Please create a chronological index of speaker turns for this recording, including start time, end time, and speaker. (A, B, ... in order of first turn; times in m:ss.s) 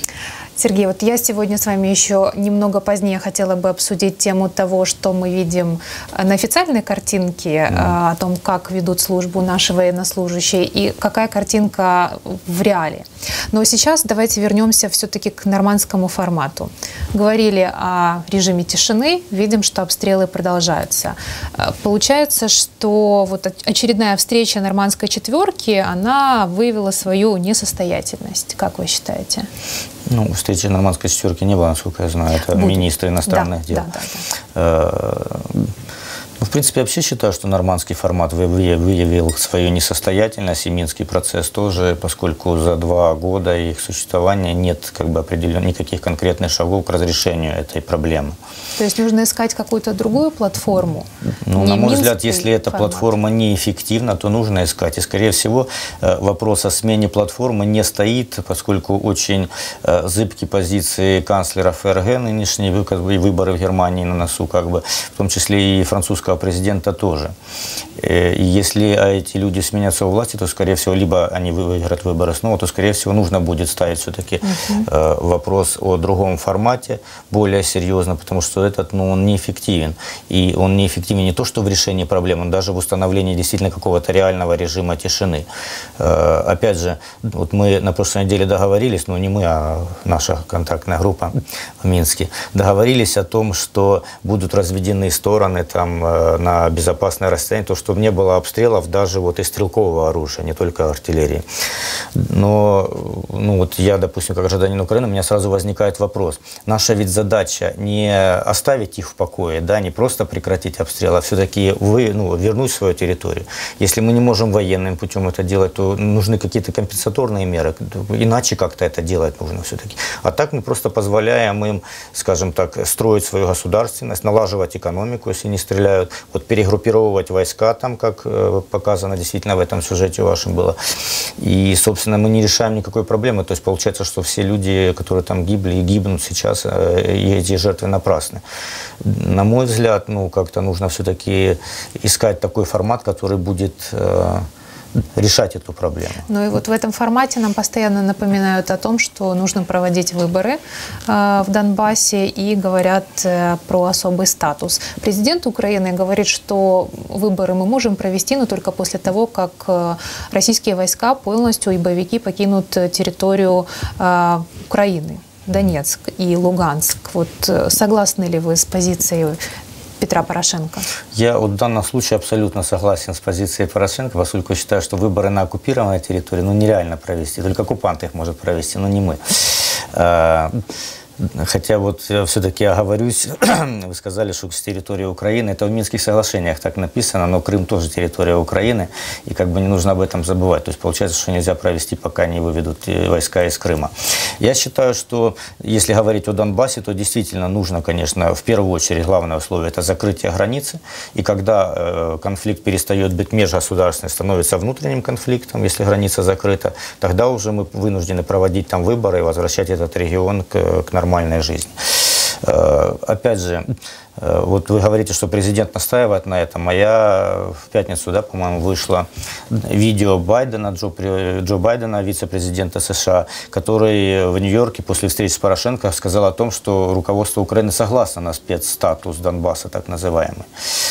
0:00.6-0:29.5 A
0:30.1-0:33.9 B
0:32.5-0:34.2 A
0:34.5-0:35.7 B
0:36.4-0:48.4 B
0:48.8-0:53.1 A
0:51.4-1:07.3 B
1:08.0-1:25.5 B
1:14.4-1:14.9 A
1:26.0-1:41.4 B
1:42.1-2:10.8 B
2:11.4-2:18.4 B
2:19.0-2:24.5 B
2:25.2-2:26.2 B
2:26.3-2:49.4 A
2:50.0-2:50.9 A
2:51.1-3:00.6 B
3:01.2-3:50.5 B